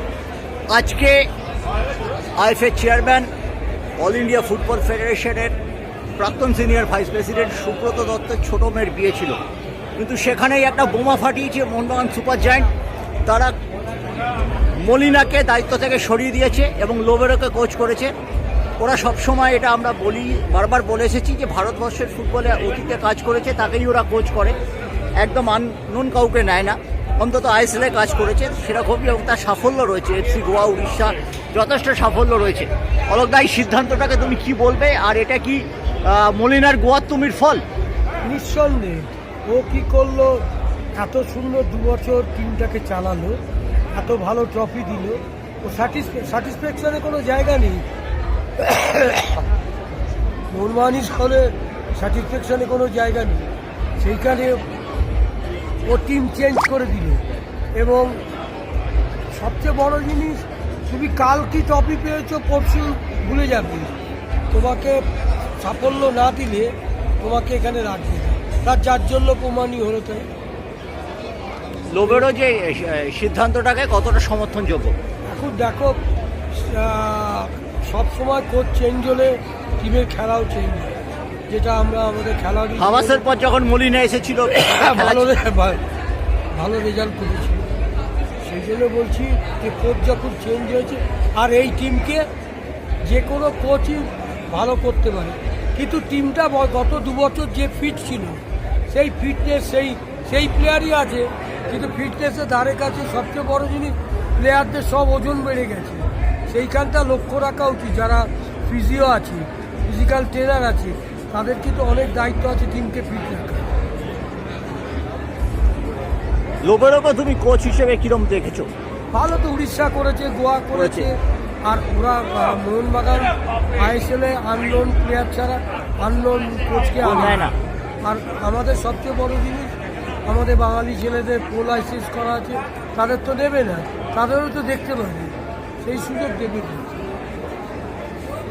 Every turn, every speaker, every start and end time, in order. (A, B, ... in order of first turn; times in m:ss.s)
0:00.7-0:01.3 A
0:02.4-0:03.3 A
0:04.0-0:05.6 A
0:06.2-0:09.4 A
0:10.0-0:12.7 A
0:13.3-0:13.6 A
0:14.8-0:18.1 A
0:18.8-0:24.6 A
0:25.2-0:37.6 A
0:38.2-0:40.4 B
0:41.0-0:43.4 B
0:44.0-0:47.8 B
0:48.6-0:49.4 B
0:50.5-0:53.4 B
0:54.0-0:54.6 B
0:55.8-0:57.2 B
0:57.8-0:58.2 B
0:59.3-1:03.9 B
1:04.5-1:05.0 B
1:05.6-1:10.3 B
1:11.9-1:14.9 A
1:12.0-1:12.2 B
1:15.3-1:16.0 B
1:16.5-1:21.0 B
1:21.5-1:23.3 B
1:22.8-1:25.3 A
1:24.6-1:25.8 B
1:26.5-1:27.6 B
1:28.4-1:32.3 B
1:33.0-1:53.7 B
1:56.6-1:58.7 A
1:59.1-2:07.5 B
2:00.7-2:01.1 A
2:07.0-2:07.6 A
2:08.0-2:09.7 B
2:10.3-2:17.0 B